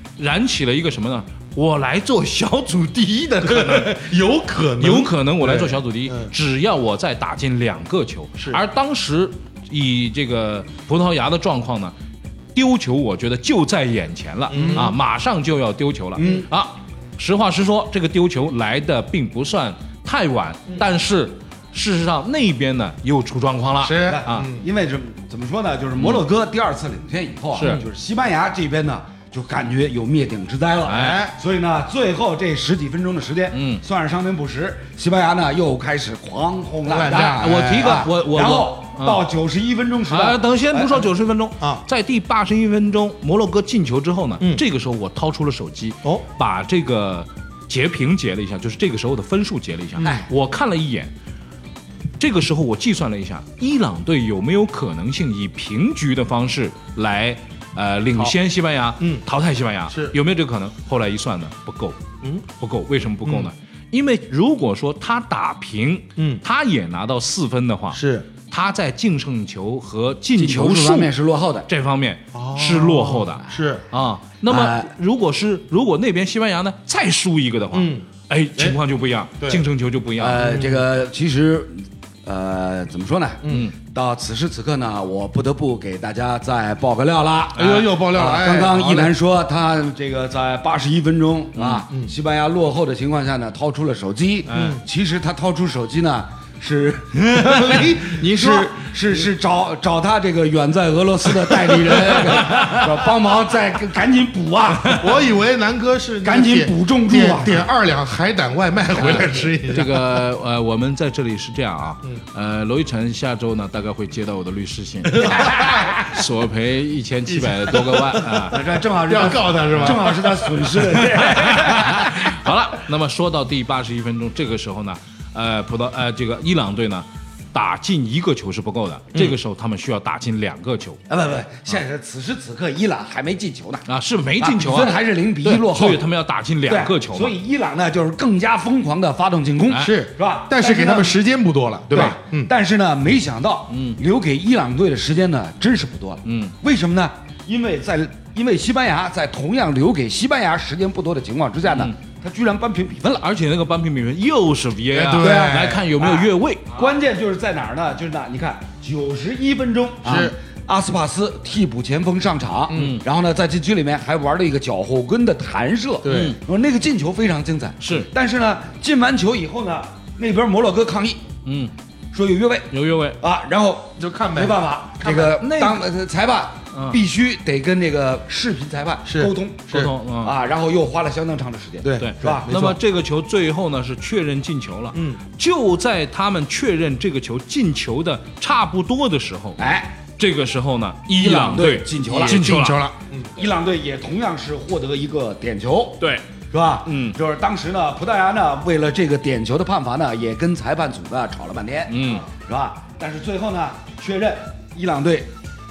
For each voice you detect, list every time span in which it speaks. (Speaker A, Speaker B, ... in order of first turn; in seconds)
Speaker A: 0.2-4.2, 4.8-11.9, 12.6-24.5, 27.6-27.8, 30.9-31.3, 33.5-33.8, 37.1-39.2, 40.1-51.1, 52.2-71.1, 71.7-80.4, 83.5-83.7, 87.6-87.9, 91.6-91.8, 94.5-94.8, 97.4-98.7, 101.9-102.8, 109.0-118.7, 119.7-120.0, 120.8-131.0, 133.9-137.3, 139.7-140.0, 143.7-144.0, 146.3-146.6, 151.7-151.9, 153.2-156.8, 162.7-163.0, 166.1-166.4, 167.8-168.1, 171.4-171.7, 172.7-173.2, 175.0-175.8, 176.7-177.0, 179.7-180.3, 182.0-192.8, 196.9-197.2, 201.9-202.3
Speaker B: 3.4-6.3, 14.5-14.9, 23.8-24.6, 30.9-31.4, 36.9-38.1, 59.9-60.2, 63.2-63.5, 66.2-66.4, 67.9-68.3, 72.3-73.8, 77.7-78.0, 79.4-79.7, 80.4-80.8, 83.4-83.7, 87.6-89.1, 94.5-94.8, 97.4-98.5, 104.9-110.1, 115.2-116.0, 117.3-118.5, 119.0-120.7, 139.7-142.5, 154.9-155.9, 160.0-160.3, 166.0-166.4, 174.0-174.6, 179.1-179.9, 181.8-182.8, 184.9-185.2, 192.1-193.3
Speaker C: 14.5-14.9, 16.2-16.5, 24.0-41.1, 50.0-50.3, 70.4-71.7, 74.5-74.9, 80.2-105.0, 106.2-107.7, 118.5-122.2, 131.1-133.9, 134.4-136.0, 136.7-141.2, 141.9-153.3, 155.2-171.2, 172.1-182.5, 189.6-189.9, 191.1-192.5, 193.3-205.3